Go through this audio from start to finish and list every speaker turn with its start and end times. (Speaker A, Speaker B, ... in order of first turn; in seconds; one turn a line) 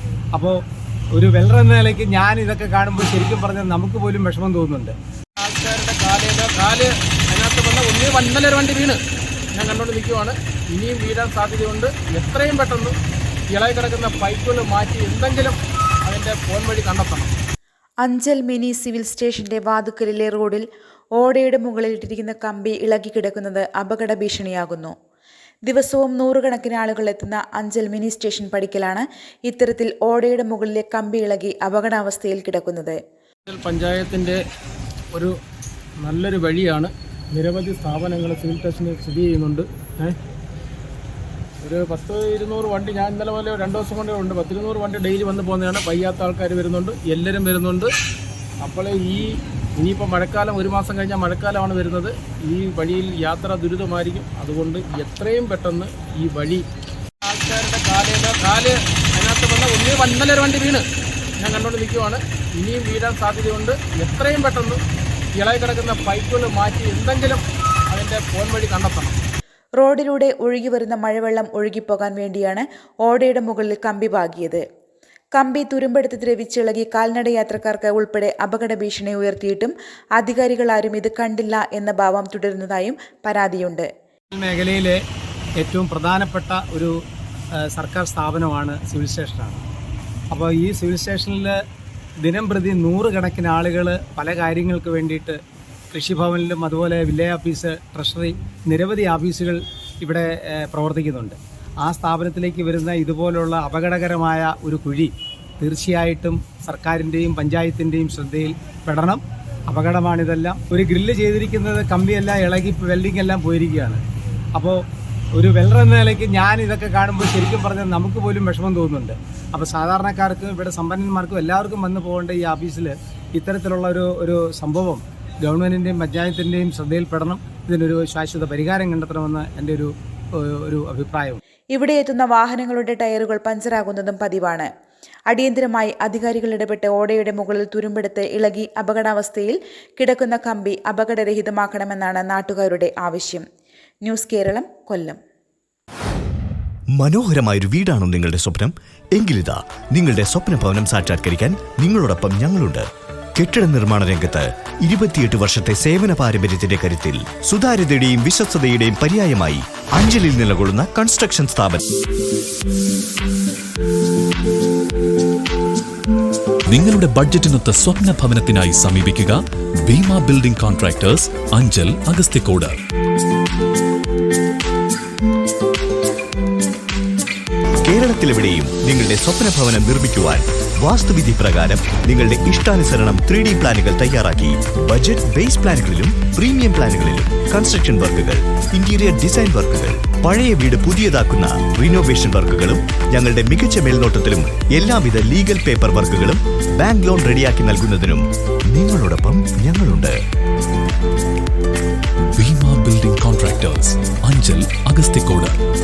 Speaker A: 0.3-0.6
Speaker A: 1.1-4.9
Speaker B: 5.4-9.0
Speaker B: 9.5-12.9
Speaker B: 13.5-17.3
Speaker C: 18.0-20.6
Speaker C: 21.2-24.9
Speaker C: 25.6-33.0
Speaker B: 33.5-34.4
Speaker B: 36.0-40.1
Speaker B: 41.6-47.9
Speaker B: 48.6-56.6
Speaker B: 57.2-60.8
Speaker B: 61.4-64.8
Speaker B: 65.4-69.1
Speaker C: 69.8-74.6
Speaker C: 75.3-83.9
Speaker A: 84.3-85.0
Speaker A: 85.6-86.9
Speaker A: 87.6-89.6
Speaker A: 90.3-91.6
Speaker A: 92.2-95.4
Speaker A: 95.9-114.0
Speaker A: 114.5-114.8
Speaker A: 115.3-131.4
Speaker C: 131.7-134.7
Speaker C: 135.3-143.4
Speaker C: 144.0-145.2
Speaker D: 146.9-161.8
Speaker E: 166.7-172.8
Speaker D: 177.8-200.2
Speaker E: 202.4-205.6